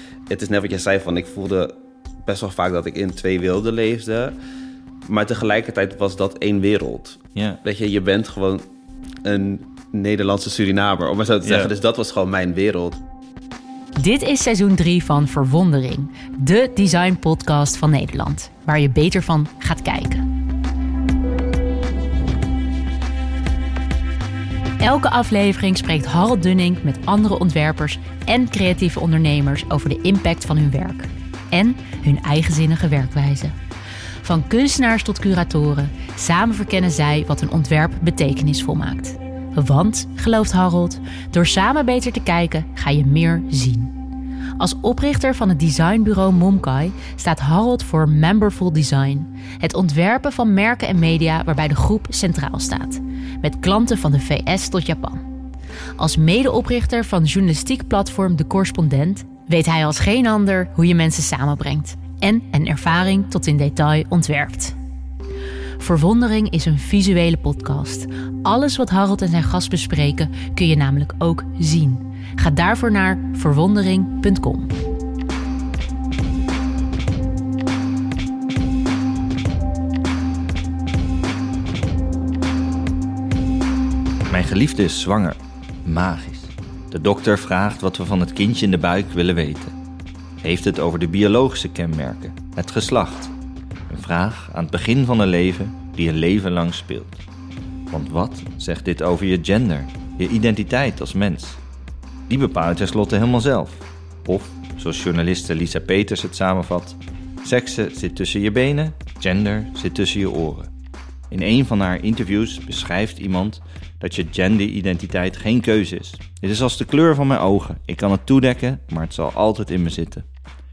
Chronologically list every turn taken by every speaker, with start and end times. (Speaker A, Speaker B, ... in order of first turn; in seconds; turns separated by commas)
Speaker A: 0.3-1.7, Speaker A: 2.2-4.3, Speaker A: 5.0-8.7, Speaker B: 7.3-7.6, Speaker A: 9.2-13.0, Speaker B: 11.4-11.7, Speaker C: 13.9-20.2, Speaker C: 24.8-33.5, Speaker C: 34.2-43.9, Speaker C: 44.6-55.2, Speaker C: 56.0-64.8, Speaker C: 65.8-74.7, Speaker B: 84.3-89.8, Speaker B: 90.4-93.3, Speaker B: 93.9-97.2, Speaker B: 97.9-101.6, Speaker B: 102.3-110.7, Speaker B: 111.3-120.2